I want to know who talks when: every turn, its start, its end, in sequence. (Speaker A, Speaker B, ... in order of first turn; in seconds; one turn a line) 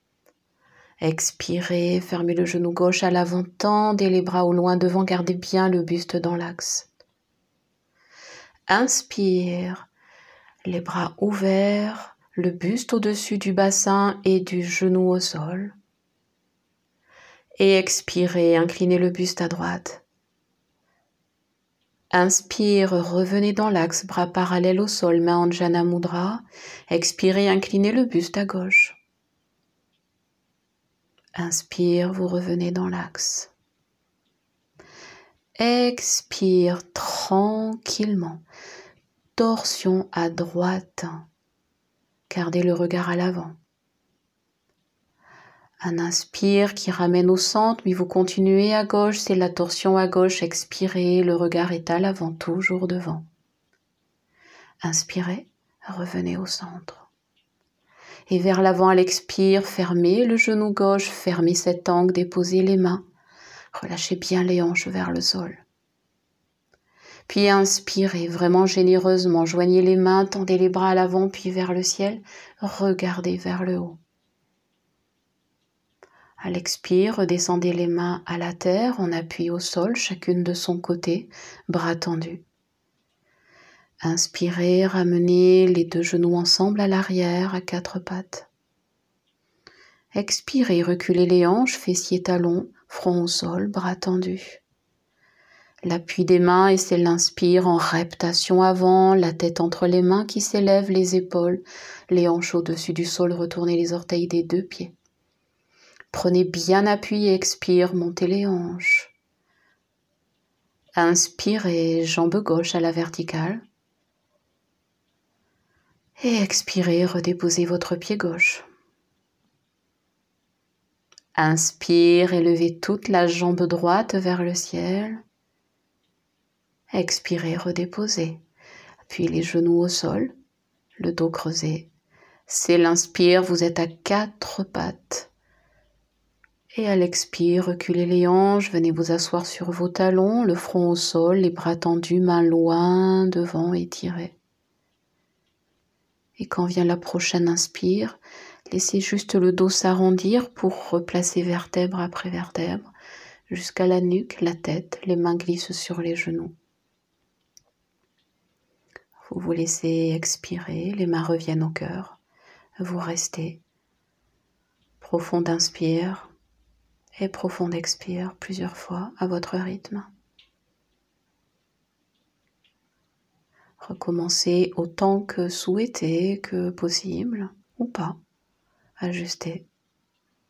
Speaker A: 1.0-6.9
Speaker A: 8.7-9.9
Speaker A: 10.7-15.8
Speaker A: 17.6-20.0
Speaker A: 22.1-29.0
Speaker A: 31.4-33.5
Speaker A: 35.6-38.4
Speaker A: 39.4-41.3
Speaker A: 42.3-43.6
Speaker A: 45.8-53.3
Speaker A: 54.8-57.1
Speaker A: 58.3-63.0
Speaker A: 63.7-65.6
Speaker A: 67.3-74.0
Speaker A: 76.4-82.4
Speaker A: 84.0-88.5
Speaker A: 90.1-94.6
Speaker A: 95.8-104.9
Speaker A: 106.1-109.1
Speaker A: 111.0-113.6
Speaker A: 116.2-118.6
Speaker A: 121.4-125.2
Speaker A: 126.9-128.4
Speaker A: 129.1-130.3
Speaker A: 131.0-131.9
Speaker A: 132.5-135.3
Speaker A: 136.8-144.3
Speaker A: 146.4-148.2
Speaker A: 148.7-152.9
Speaker A: 153.5-156.5
Speaker A: 159.3-162.2
Speaker A: 162.8-163.6
Speaker A: 165.0-166.3
Speaker A: 167.2-170.1
Speaker A: 173.8-178.2
Speaker A: 179.0-179.7